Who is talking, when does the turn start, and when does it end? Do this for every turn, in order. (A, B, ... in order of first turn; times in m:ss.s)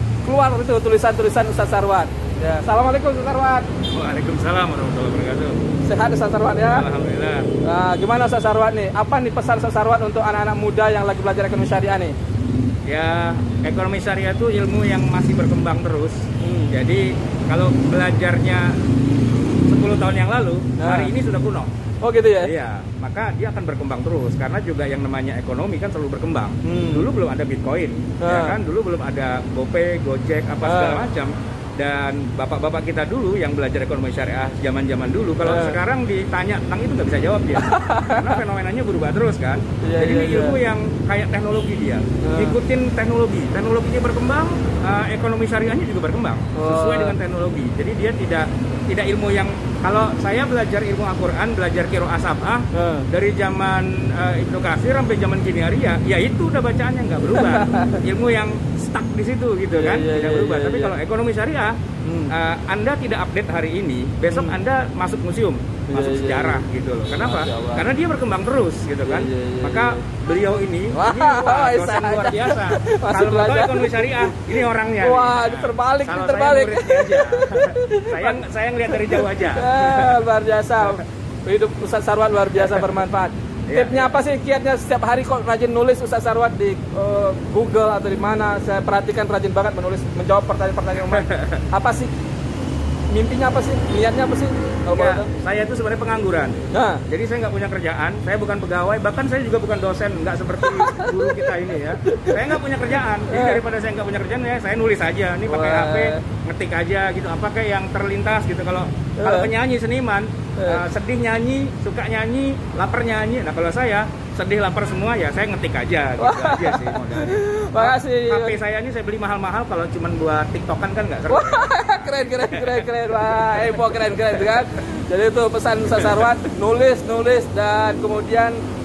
0:00.2-0:03.7 A
0:03.9-0:05.6 B
0:05.8-0:06.8 A
0:06.7-0:07.5 B
0:07.6-0:12.2 A
0:12.9-0:18.8 B
0:16.4-0:16.7 A
0:19.6-0:21.7 B
0:20.8-0:21.1 A
0:22.0-0:22.5 A
0:22.4-1:01.8 B
0:26.6-0:27.1 A
0:28.2-0:28.6 A
0:30.6-0:31.0 A
0:35.4-0:35.8 A
0:37.6-0:38.4 A
0:39.8-0:40.6 A
0:42.2-0:42.6 A
0:46.6-0:47.2 A
0:52.7-0:53.1 A
0:57.4-0:58.0 A
0:59.7-1:01.0 A
1:02.1-1:02.3 A
1:02.3-1:20.2 B
1:04.3-1:04.6 A
1:05.9-1:07.8 A
1:09.1-1:10.0 A
1:10.9-1:14.4 A
1:15.0-1:18.4 A
1:19.0-1:32.1 A
1:23.7-1:24.1 B
1:31.1-1:31.6 B
1:33.1-1:35.3 A
1:34.9-2:02.9 B
1:36.7-1:37.0 A
1:40.7-1:41.4 A
1:42.1-1:42.4 A
1:43.3-1:43.6 A
1:45.5-1:46.2 A
1:49.2-1:49.5 A
1:56.2-1:58.6 A
2:01.3-2:08.6 A
2:03.4-2:03.8 B